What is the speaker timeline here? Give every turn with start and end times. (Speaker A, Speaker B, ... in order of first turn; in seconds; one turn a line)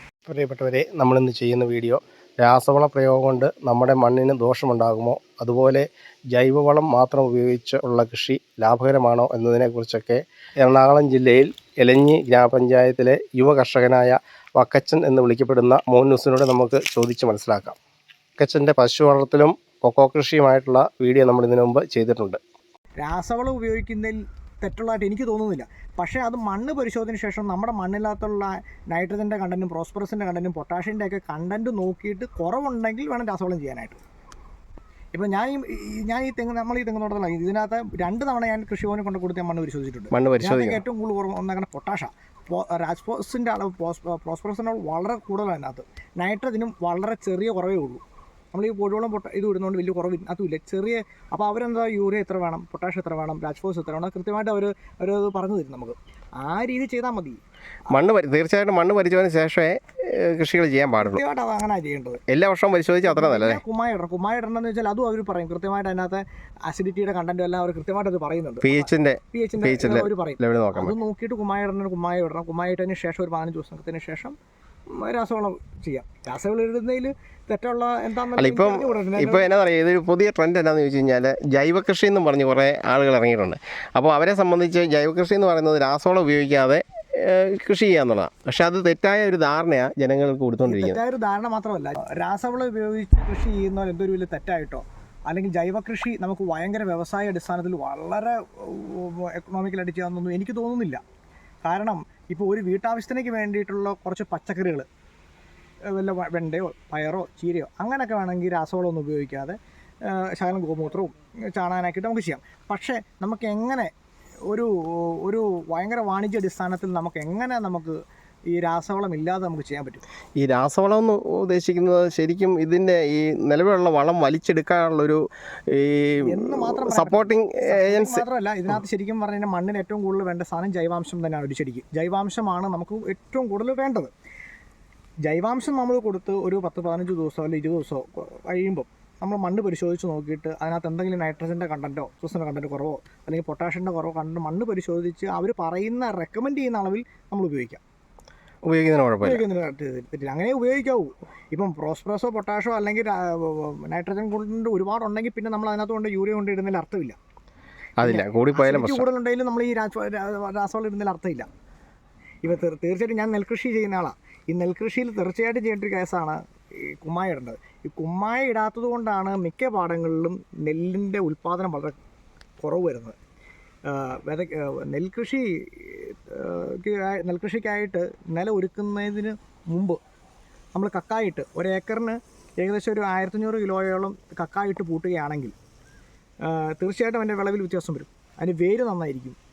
Speaker A: 0.3-17.8
Speaker A: 18.4-22.4
Speaker B: 23.0-34.0
Speaker B: 35.1-48.0
Speaker A: 40.1-40.8
Speaker B: 48.5-57.4
Speaker A: 57.9-61.2
Speaker B: 61.0-62.2
Speaker A: 62.3-63.6
Speaker B: 63.0-74.3
Speaker A: 68.6-70.9
Speaker B: 74.9-79.5
Speaker A: 78.4-91.0
Speaker B: 90.6-101.0
Speaker B: 101.6-104.8
Speaker B: 105.9-113.9
Speaker B: 114.5-118.0
Speaker B: 118.5-120.0
Speaker A: 120.4-128.2
Speaker B: 126.2-134.1
Speaker B: 135.2-147.8
Speaker A: 148.7-149.4
Speaker B: 149.2-157.2
Speaker A: 158.0-159.0
Speaker B: 158.0-161.5
Speaker B: 162.4-171.9
Speaker B: 172.6-173.2
Speaker B: 173.9-180.0
Speaker B: 180.7-185.5
Speaker B: 186.4-189.4